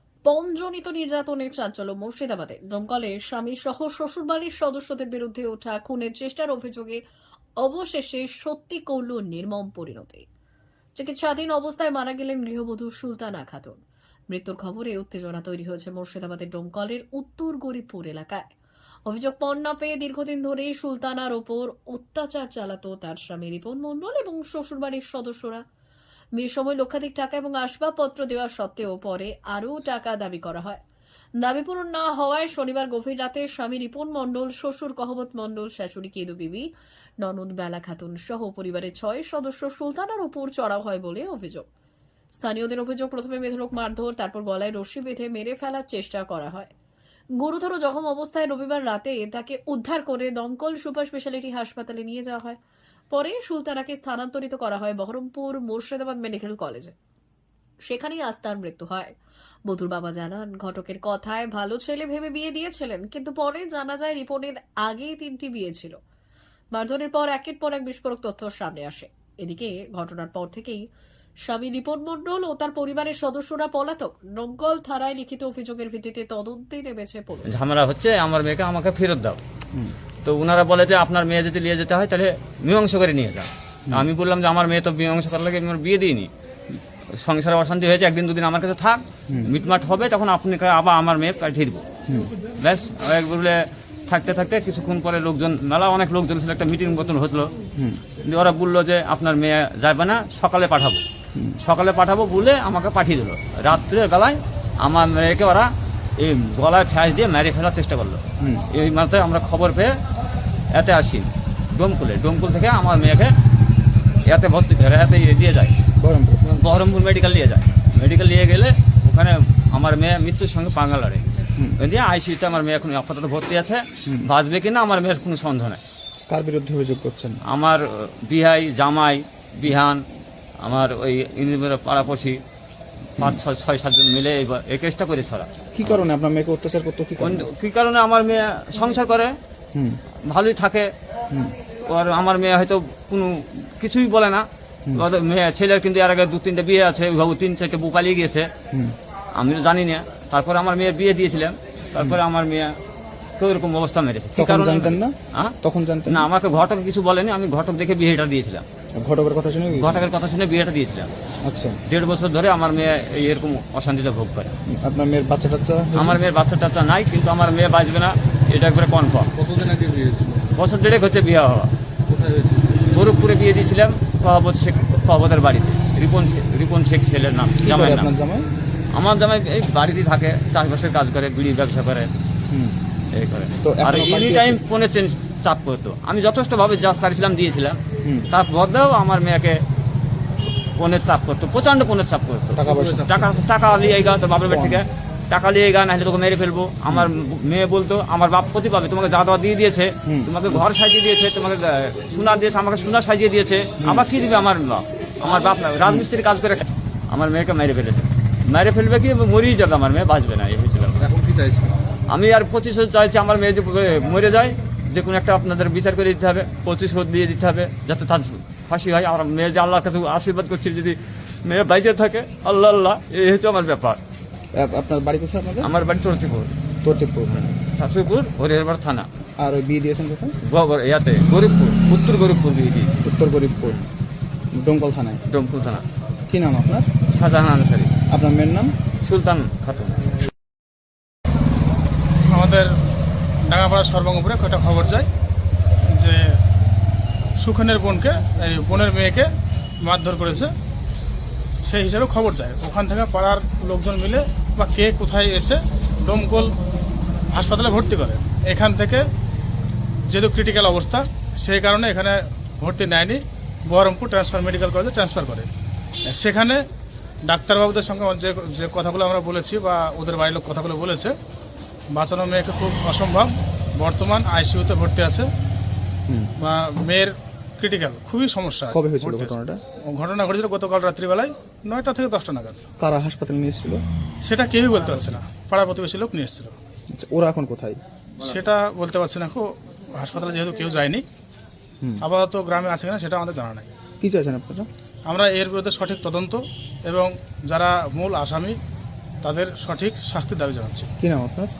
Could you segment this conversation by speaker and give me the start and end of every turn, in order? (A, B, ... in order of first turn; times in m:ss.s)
0:00.2-0:07.0 A
0:07.6-0:10.2 A
0:11.0-0:13.8 A
0:14.3-0:18.4 A
0:19.0-0:25.6 A
0:26.4-0:30.8 A
0:31.4-0:36.7 A
0:37.2-0:41.6 A
0:42.3-0:46.7 A
0:47.4-0:52.6 A
0:53.1-0:56.9 A
0:57.9-0:59.1 A
0:59.7-1:05.9 A
1:06.7-1:10.8 A
1:11.5-1:17.6 A
1:17.5-1:19.4 B
1:20.2-1:26.3 B
1:27.1-1:31.8 B
1:32.1-1:32.3 C
1:32.6-1:37.5 B
1:37.8-1:38.0 C
1:38.2-1:41.0 B
1:41.6-1:49.9 B
1:48.4-1:48.7 C
1:50.7-1:53.3 B
1:54.2-1:55.7 B
1:56.0-1:56.4 C
1:56.4-2:01.2 B
2:01.8-2:05.8 B
2:06.3-2:07.4 C
2:07.5-2:10.0 B
2:10.6-2:12.4 B
2:13.2-2:16.0 B
2:15.7-2:17.4 C
2:17.2-2:19.3 B
2:19.7-2:20.0 C
2:20.3-2:20.9 B
2:21.8-2:28.5 B
2:29.3-2:32.7 B
2:33.4-2:35.5 B
2:34.3-2:36.3 C
2:36.0-2:38.6 B
2:39.0-2:40.1 C
2:39.7-2:41.1 B
2:41.4-2:41.8 C
2:41.9-2:44.5 B
2:44.7-2:46.2 C
2:45.9-2:49.3 B
2:49.4-2:50.4 D
2:50.5-2:51.7 B
2:52.1-2:52.6 D
2:52.9-2:58.1 B
2:57.6-2:58.5 C
2:58.9-3:02.1 B
3:02.5-3:02.8 C
3:03.1-3:07.8 B
3:03.6-3:04.6 C
3:08.3-3:09.6 B
3:10.7-3:31.1 B
3:12.5-3:13.2 C
3:14.4-3:14.8 C
3:20.0-3:20.6 C
3:23.8-3:24.1 C
3:31.0-3:31.7 D
3:32.1-3:44.0 B
3:44.5-3:45.7 C
3:45.6-3:46.5 B
3:46.8-3:47.3 C
3:47.2-3:49.1 B
3:49.4-3:50.4 C
3:50.4-3:53.1 B
3:53.0-3:53.8 C
3:54.5-3:55.2 C
3:55.3-3:55.8 B
3:56.3-3:56.9 C
3:57.1-3:57.9 B
3:58.1-3:58.7 C
3:59.0-4:00.0 B
4:02.3-4:02.8 E
4:03.4-4:05.1 E
4:05.8-4:06.4 E
4:07.4-4:09.3 E
4:09.8-4:10.5 E
4:11.6-4:16.6 E
4:17.3-4:19.1 E
4:20.1-4:25.5 E
4:26.0-4:26.6 E
4:27.2-4:31.2 E
4:31.9-4:35.3 E
4:36.1-4:36.3 C
4:36.4-4:39.3 E
4:38.7-4:39.6 C
4:39.8-4:42.6 E
4:42.8-4:43.8 C
4:44.2-4:46.6 E
4:46.9-4:47.8 C
4:48.2-4:51.0 E
4:52.0-4:53.7 E
4:54.0-4:54.7 C
4:55.1-4:58.6 E
4:59.2-5:00.9 E
5:01.0-5:01.5 C